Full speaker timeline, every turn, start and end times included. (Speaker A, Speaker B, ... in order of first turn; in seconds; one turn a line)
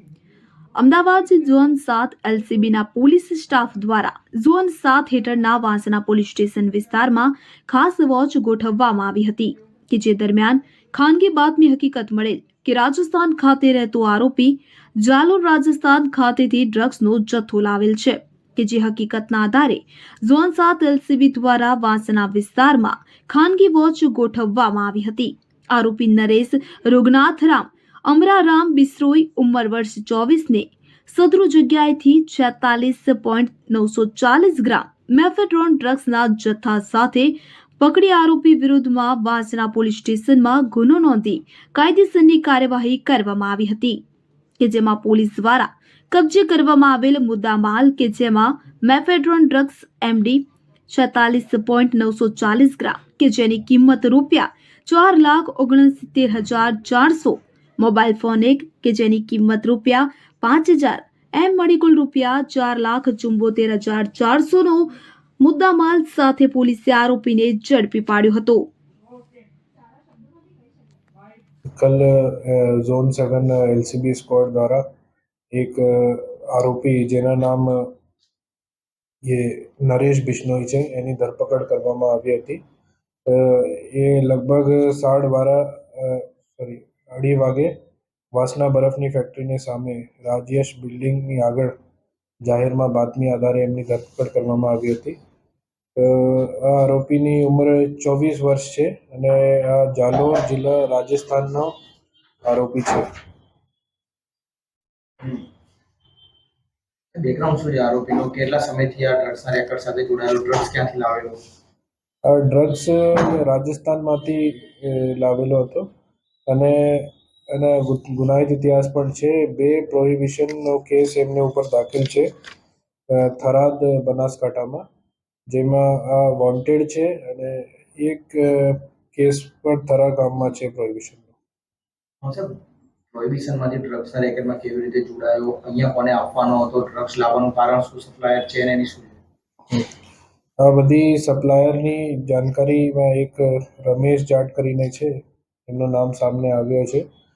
Speaker A: 0.8-44.0
Speaker A: 44.6-68.7
Speaker B: 71.8-74.8
Speaker B: 75.5-77.9
Speaker B: 79.2-82.6
Speaker B: 83.3-87.7
Speaker B: 88.3-91.8
Speaker B: 92.4-95.2
Speaker B: 96.0-101.7
Speaker B: 102.5-103.1
Speaker C: 105.2-105.5
Speaker C: 107.2-111.4
Speaker B: 112.2-115.9
Speaker B: 116.5-122.3
Speaker B: 123.1-124.9
Speaker B: 125.5-131.3
Speaker C: 132.2-132.6
Speaker C: 133.1-139.2
Speaker B: 140.6-145.1
Speaker B: 145.7-147.1